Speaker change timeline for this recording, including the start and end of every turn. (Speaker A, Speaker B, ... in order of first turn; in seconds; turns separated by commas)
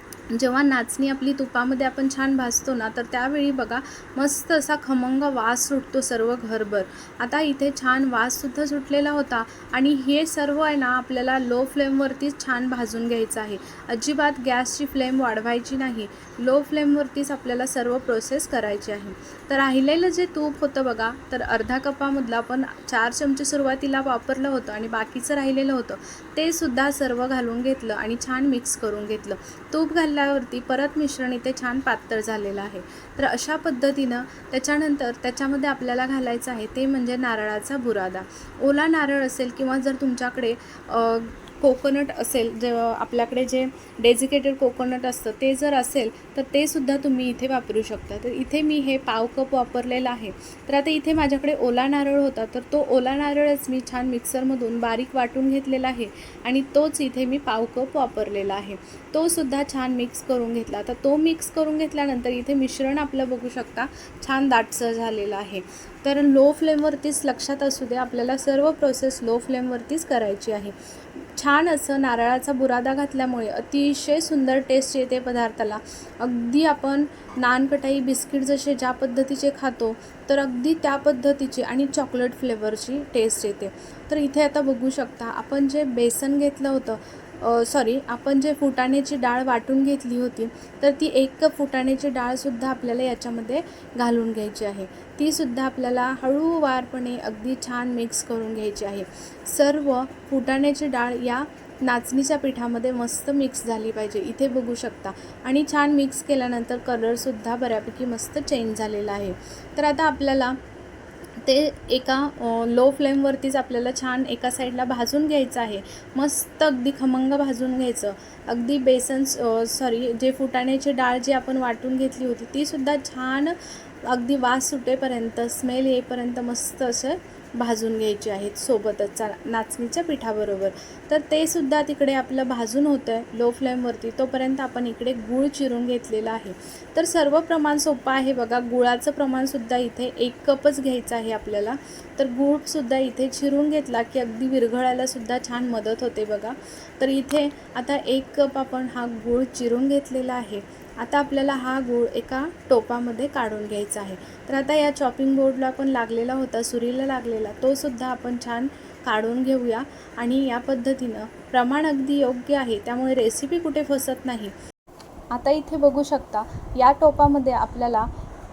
Speaker A: 0.3-70.7, Speaker A: 71.3-110.6, Speaker A: 111.4-164.5, Speaker A: 165.3-168.1